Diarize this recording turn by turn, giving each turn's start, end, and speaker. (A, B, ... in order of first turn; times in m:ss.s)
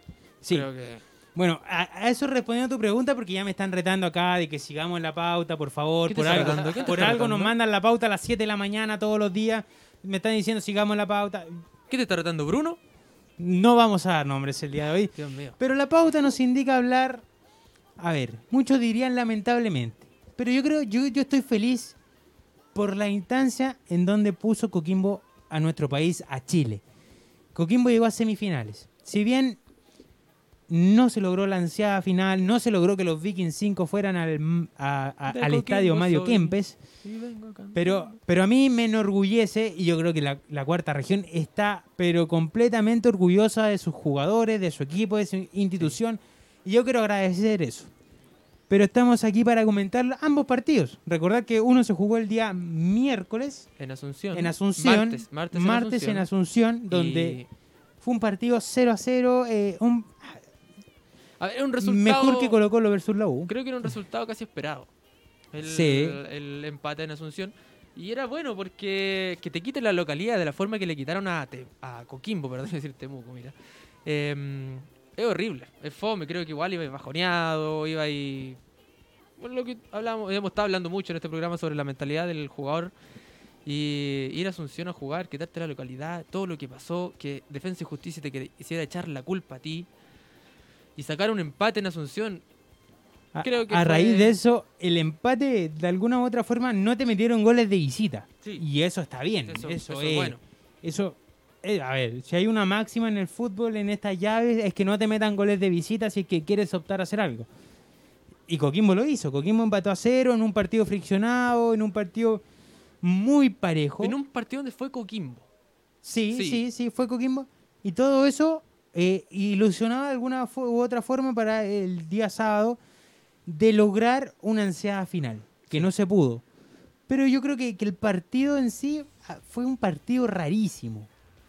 0:00.4-0:00.7 A
0:00.5-0:01.0 B
0:01.4-0:11.6 A
0:06.1-0:07.5 B
0:11.9-0:12.8 B
0:13.4-0:17.2 A
0:15.2-0:15.6 B
0:18.0-0:22.0 A
0:22.8-0:26.8 A
0:27.6-0:29.6 A
0:30.7-0:36.8 A
0:35.3-0:38.1 B
0:37.8-0:47.9 A
0:48.7-0:53.7 A
0:53.8-0:56.3 B
0:54.3-0:57.4 A
0:56.9-0:57.5 B
0:58.0-1:00.4 A
1:01.4-1:02.6 B
1:01.8-1:03.5 A
1:03.5-1:04.9 B
1:05.5-1:13.5 B
1:05.6-1:06.2 A
1:14.0-1:18.6 B
1:19.4-1:22.9 B
1:23.6-1:29.9 B
1:31.0-1:32.4 B
1:33.3-1:47.5 A
1:33.4-1:34.4 B
1:39.5-1:40.4 B
1:48.5-1:52.4 A
1:53.0-1:54.2 A
1:54.0-1:55.4 B
1:56.0-2:02.8 A
1:56.3-1:56.6 B
2:03.5-2:06.4 A
2:07.1-2:11.1 A